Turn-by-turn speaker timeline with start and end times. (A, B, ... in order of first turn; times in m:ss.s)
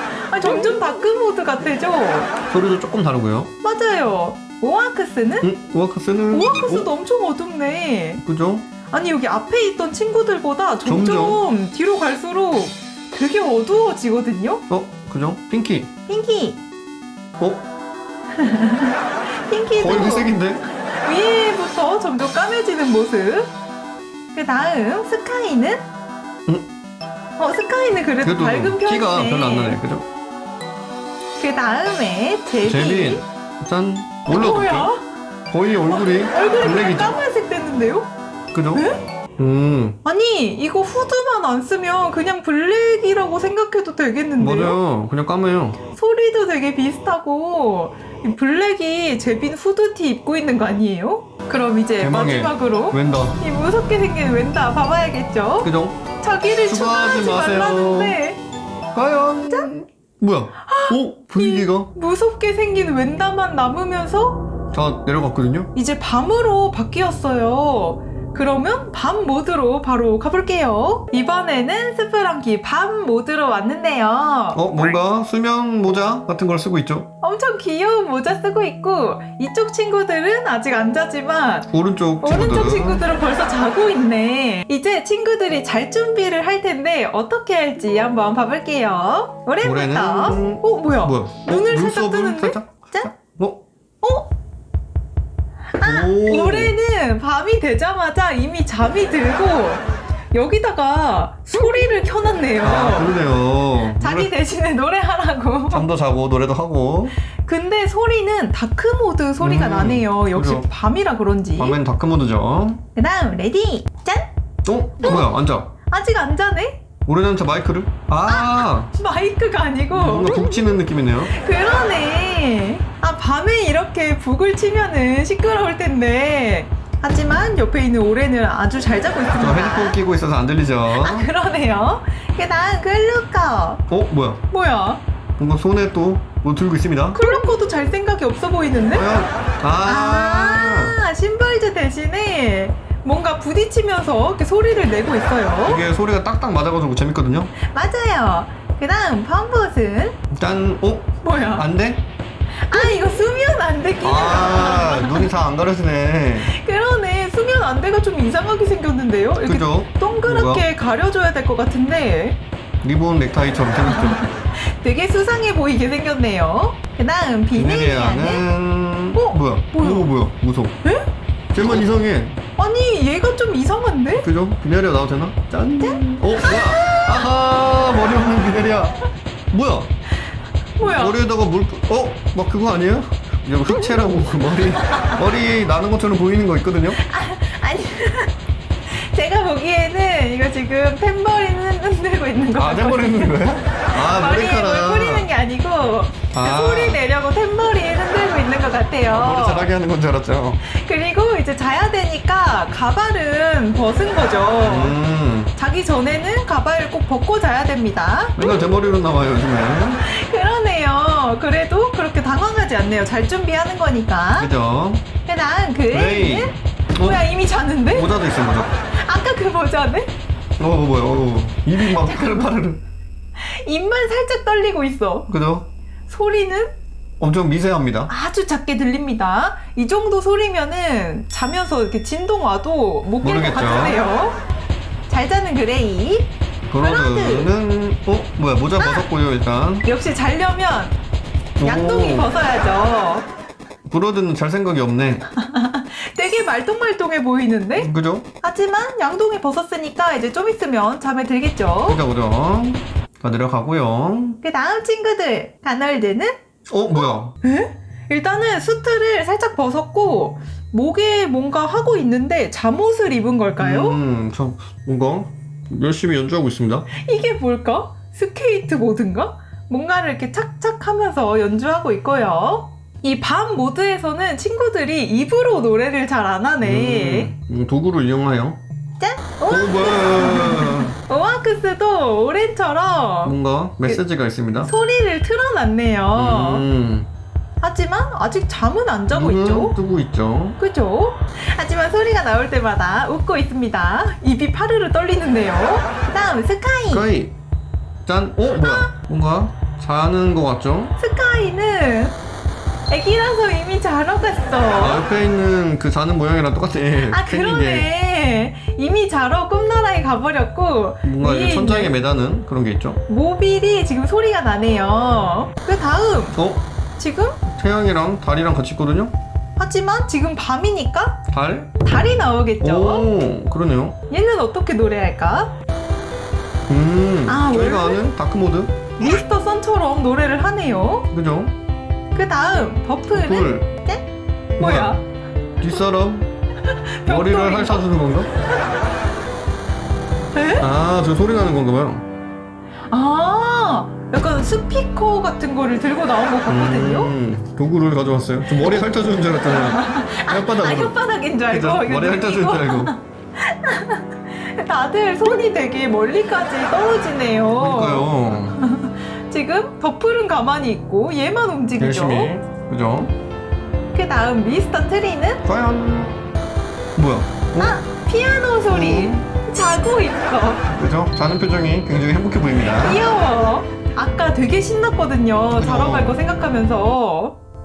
0:00.3-0:02.3 A
0:02.4-0:03.5 B
0:03.6-0:05.5 A
0:05.4-0:06.9 B
0:06.3-0:08.2 A
0:08.2-0:08.6 B
0:08.9-0:14.6 A
0:10.8-0:11.4 B
0:14.7-0:15.9 B
0:16.1-0:16.6 A
0:17.4-0:17.6 B
0:18.4-0:19.0 A
0:19.5-0:20.3 A
0:19.8-0:20.6 B
0:21.0-0:23.5 A
0:24.3-0:25.8 A
0:27.4-0:29.8 A
0:28.2-0:30.1 B
0:31.4-0:33.2 A
0:32.6-0:34.9 B
0:34.3-0:35.0 A
0:35.5-0:37.2 B
0:35.9-0:38.1 A
0:38.5-0:38.8 B
0:38.7-0:39.0 A
0:39.4-0:40.0 B
0:40.0-0:44.8 A
0:44.4-0:45.8 B
0:46.0-0:58.4 A
0:52.0-0:53.4 B
0:55.6-0:56.0 B
0:56.6-0:58.2 B
0:58.9-1:01.9 B
1:00.7-1:04.4 A
1:04.7-1:05.7 B
1:05.7-1:14.9 A
1:14.5-1:17.1 B
1:17.2-1:21.7 A
1:21.7-1:23.0 B
1:22.2-1:33.1 A
1:29.6-1:33.6 B
1:34.0-1:34.3 A
1:35.8-1:43.1 A
1:35.8-1:36.7 B
1:42.6-1:44.3 B
1:44.0-1:45.8 A
1:45.7-1:47.2 B
1:47.4-1:51.8 A
1:49.4-1:50.6 B
1:51.6-1:52.8 B
1:53.0-1:54.3 A
1:54.6-1:55.7 B
1:55.0-1:55.3 A
1:55.9-1:56.8 A
1:57.0-1:58.9 B
1:58.3-2:10.0 A
1:59.9-2:01.3 B
2:09.3-2:11.3 B
2:11.0-2:13.8 A
2:13.9-2:14.4 B
2:14.5-2:15.0 A
2:15.4-2:17.3 B
2:17.1-2:19.0 A
2:18.9-2:21.0 B
2:19.8-2:25.8 A
2:25.6-2:27.5 B
2:27.6-2:30.2 A
2:30.3-2:32.0 B
2:31.2-2:31.6 A
2:32.7-2:35.3 A
2:34.0-2:36.5 B
2:36.4-2:42.4 A
2:39.4-2:40.6 B
2:42.8-2:44.2 B
2:43.9-2:48.5 A
2:47.5-2:50.8 B
2:49.1-2:50.1 A
2:51.5-2:52.4 B
2:52.6-2:54.2 A
2:54.1-2:59.9 B
2:55.8-2:57.3 A
3:00.8-3:01.2 A
3:00.8-3:07.0 B
3:03.7-3:04.0 A
3:04.7-3:05.1 A
3:07.0-3:08.3 A
3:08.9-3:19.7 A
3:12.6-3:15.3 B
3:16.3-3:17.0 B
3:19.1-3:20.6 B
3:20.6-3:25.0 A
3:24.6-3:25.5 B
3:25.6-3:28.7 A
3:28.4-3:30.0 B
3:30.0-3:34.5 A
3:34.4-3:35.0 B
3:35.2-3:38.1 A
3:35.9-3:37.2 B
3:37.9-3:38.7 B
3:39.0-3:40.1 A
3:40.6-3:42.8 B
3:41.8-3:42.5 A
3:43.4-3:45.3 A
3:45.3-3:45.7 B
3:46.1-3:46.8 A
3:47.2-3:48.1 B
3:48.1-3:54.4 A
3:53.2-3:54.0 B
3:55.1-3:57.5 A
3:56.7-3:59.9 B
3:58.8-3:59.0 A
3:59.8-4:01.0 A
4:01.6-4:02.3 B
4:01.6-4:03.3 A
4:03.8-4:05.2 B
4:05.3-4:07.9 A
4:07.8-4:08.3 B
4:08.4-4:12.0 A
4:11.9-4:14.4 B
4:14.4-4:16.4 A
4:16.7-4:17.3 B
4:16.9-4:24.0 A
4:23.6-4:26.9 B
4:27.0-4:37.3 A
4:36.6-4:38.6 B
4:39.0-4:44.0 A
4:39.5-4:40.9 B
4:43.2-4:44.7 B
4:44.6-4:46.6 A
4:46.1-4:47.1 B
4:47.6-4:49.8 A
4:49.1-4:50.6 B
4:50.6-4:57.1 A
4:56.9-4:57.4 B
4:58.0-5:00.9 B
4:58.6-4:58.9 A
5:01.0-5:02.2 A
5:02.9-5:05.0 A
5:04.8-5:07.9 B
5:07.1-5:11.9 A
5:11.0-5:13.0 B
5:13.1-5:16.4 A
5:16.3-5:16.6 B
5:17.0-5:17.4 A
5:17.5-5:19.1 B
5:19.6-5:21.2 A
5:21.3-5:21.7 B
5:21.8-5:23.1 A
5:22.6-5:24.0 B
5:24.1-5:25.5 A
5:26.7-5:28.8 B
5:27.3-5:28.1 A
5:29.0-5:31.1 A
5:31.1-5:31.5 B
5:32.1-5:35.0 A
5:33.1-5:33.7 B
5:34.6-5:35.0 B
5:35.6-5:36.3 B
5:36.6-5:37.8 A
5:37.0-5:38.3 B
5:40.3-5:40.6 A
5:40.6-5:42.0 B
5:42.9-5:47.1 A
5:46.5-5:51.0 B
5:48.6-5:48.8 A
5:49.5-6:02.3 A
5:51.5-5:52.9 B
5:57.6-5:58.6 B
6:01.8-6:03.1 B
6:03.9-6:05.4 A
6:05.4-6:06.2 B
6:07.0-6:07.8 B
6:07.6-6:10.7 A
6:08.7-6:09.2 B
6:10.7-6:13.0 B
6:12.6-6:17.4 A
6:15.5-6:16.2 B